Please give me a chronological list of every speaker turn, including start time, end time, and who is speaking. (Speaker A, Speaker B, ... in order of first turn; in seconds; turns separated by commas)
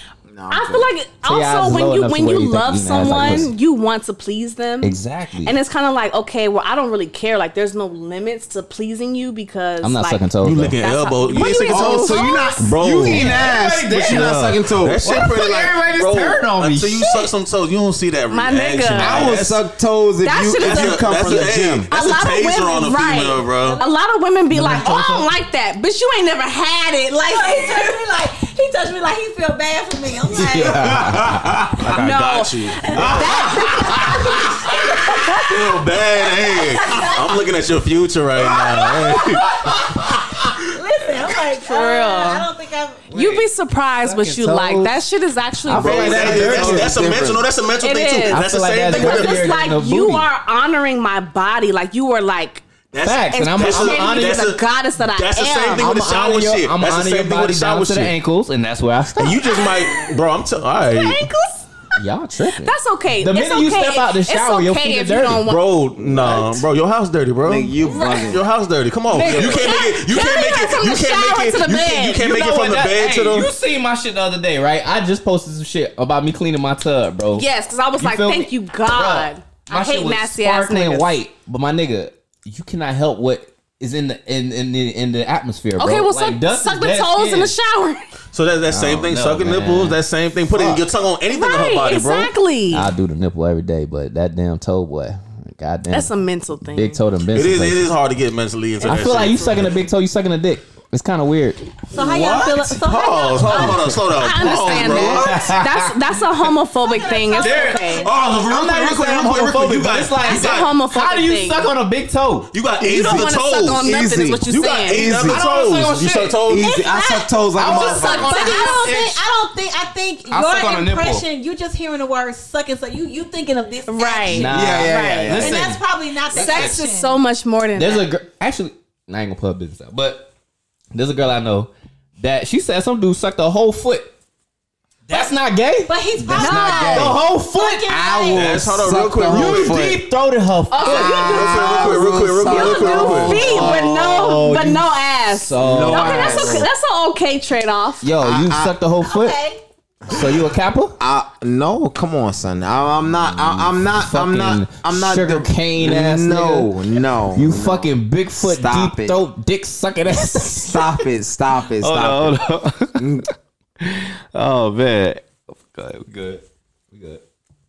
Speaker A: 0.3-0.9, Speaker B: 0.5-10.2, Speaker C: 1.2-3.5, Speaker C: 4.8-5.5, Speaker C: 9.8-10.8, Speaker D: 10.4-19.6, Speaker B: 10.8-12.6, Speaker A: 11.7-15.1, Speaker C: 12.6-17.3, Speaker B: 18.3-19.4, Speaker A: 19.0-21.9, Speaker B: 20.2-27.9, Speaker D: 20.6-23.8, Speaker E: 23.6-23.9, Speaker C: 24.5-25.3, Speaker E: 27.2-31.2, Speaker C: 30.3-31.7, Speaker D: 31.1-34.2, Speaker B: 31.9-35.7, Speaker E: 33.0-35.1, Speaker D: 35.1-40.0, Speaker B: 36.5-37.2, Speaker E: 36.7-37.2, Speaker C: 38.7-39.4, Speaker E: 40.7-43.1, Speaker B: 41.6-42.5, Speaker B: 43.1-46.1, Speaker C: 43.1-43.4, Speaker C: 44.0-45.0, Speaker C: 45.6-47.0, Speaker D: 45.8-49.5, Speaker A: 45.9-47.5, Speaker B: 47.8-52.6, Speaker C: 48.3-50.3, Speaker D: 52.9-58.1, Speaker C: 53.0-54.4, Speaker B: 53.3-55.9, Speaker C: 55.8-59.5, Speaker D: 59.2-61.3, Speaker B: 59.4-60.1, Speaker B: 60.8-61.7, Speaker C: 62.0-65.4, Speaker B: 62.6-65.7, Speaker D: 65.4-73.5, Speaker A: 66.0-66.6, Speaker A: 67.4-68.5, Speaker B: 67.8-68.4, Speaker C: 69.1-69.8, Speaker B: 69.1-72.2, Speaker C: 72.1-77.5, Speaker B: 77.3-81.1, Speaker C: 78.0-87.5, Speaker B: 85.8-88.1, Speaker D: 88.3-92.3, Speaker C: 88.7-90.8, Speaker B: 91.3-92.9, Speaker C: 92.7-97.9, Speaker B: 95.9-97.0, Speaker D: 97.3-99.7, Speaker C: 98.8-101.7, Speaker E: 101.9-103.9, Speaker D: 102.0-105.6, Speaker A: 102.1-102.5, Speaker B: 103.4-108.1, Speaker C: 104.3-106.0, Speaker A: 104.7-105.2, Speaker E: 106.8-108.4, Speaker C: 107.3-112.5, Speaker D: 108.0-110.7, Speaker B: 110.2-111.7, Speaker D: 112.5-116.7, Speaker B: 112.8-115.1, Speaker A: 112.9-115.4, Speaker C: 115.3-116.4, Speaker A: 116.4-118.6, Speaker E: 116.6-124.6, Speaker C: 117.5-119.2, Speaker B: 117.7-118.9, Speaker C: 120.3-121.2, Speaker B: 123.9-125.6, Speaker C: 124.3-125.8, Speaker A: 124.4-125.7, Speaker E: 125.4-127.2, Speaker B: 126.3-128.1, Speaker C: 126.4-126.7, Speaker C: 127.8-130.3, Speaker C: 130.9-134.1, Speaker C: 135.1-138.0, Speaker E: 135.9-138.6, Speaker A: 136.3-137.2, Speaker B: 136.4-137.1, Speaker A: 137.9-140.1, Speaker D: 138.3-139.8, Speaker C: 139.3-141.3, Speaker B: 140.7-148.1, Speaker A: 140.8-144.2, Speaker D: 140.9-143.4, Speaker C: 143.3-146.7, Speaker A: 145.6-146.7, Speaker C: 148.0-149.4, Speaker A: 148.2-148.7, Speaker E: 149.0-150.2, Speaker C: 150.1-151.0, Speaker A: 151.0-159.2, Speaker C: 153.2-156.8, Speaker C: 157.3-161.1, Speaker A: 160.5-162.4, Speaker C: 161.8-163.3, Speaker A: 163.0-163.3, Speaker C: 163.8-167.2